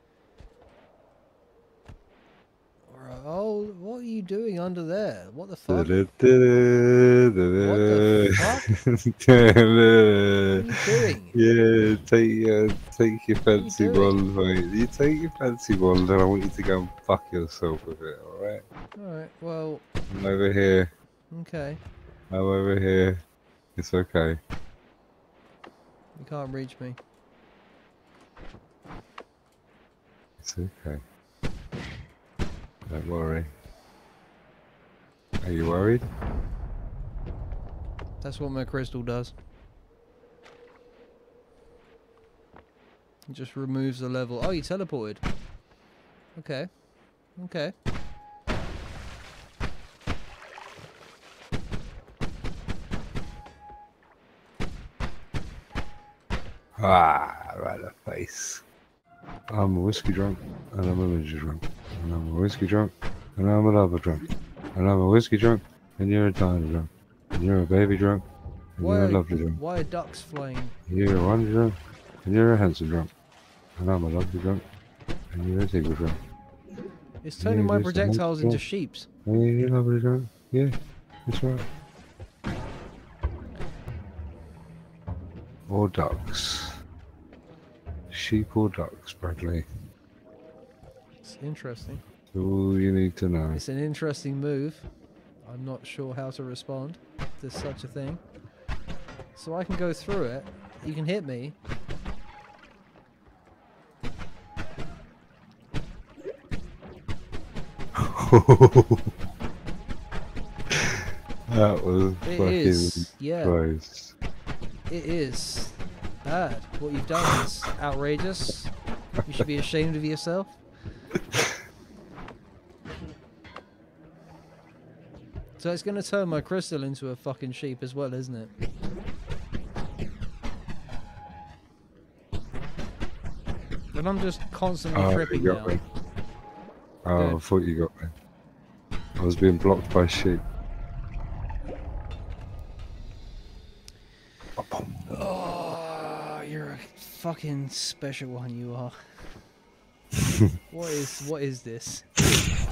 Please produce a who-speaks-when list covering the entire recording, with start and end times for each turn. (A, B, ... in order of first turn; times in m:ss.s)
0:02.9-0:05.9 A
0:05.7-0:10.7 B
0:07.6-0:08.7 A
0:10.5-0:11.4 A
0:11.3-0:18.6 B
0:13.6-0:14.2 A
0:19.0-0:19.8 A
0:20.1-0:20.9 B
0:21.3-0:21.8 A
0:22.3-0:23.2 B
0:23.8-0:24.4 B
0:26.2-0:27.0 A
0:30.4-0:31.0 B
0:32.9-0:33.5 B
0:35.4-0:36.0 B
0:38.2-0:39.3 A
0:43.3-0:45.2 A
0:46.4-0:46.8 A
0:47.4-0:47.7 A
0:56.8-0:58.6 B
0:59.5-1:08.2 B
1:08.8-1:09.6 B
1:08.8-1:10.8 A
1:10.9-1:13.1 B
1:13.8-1:14.6 B
1:15.3-1:16.2 B
1:17.2-1:19.1 A
1:17.4-1:18.6 B
1:19.3-1:20.7 B
1:21.3-1:21.7 B
1:25.7-1:26.7 B
1:28.1-1:29.6 B
1:31.2-1:32.0 A
1:32.3-1:33.6 B
1:33.5-1:34.8 A
1:35.4-1:38.2 A
1:39.4-1:41.6 A
1:48.0-1:49.1 B
1:50.7-1:54.2 B
1:52.2-1:53.6 A
1:54.9-1:58.7 A
1:59.2-2:00.6 A
2:05.6-2:08.5 A
2:13.9-2:15.8 A
2:15.0-2:15.8 B
2:17.0-2:18.1 B
2:17.2-2:17.4 A
2:19.2-2:20.4 B
2:24.6-2:25.2 B
2:25.1-2:29.0 A
2:30.7-2:32.1 A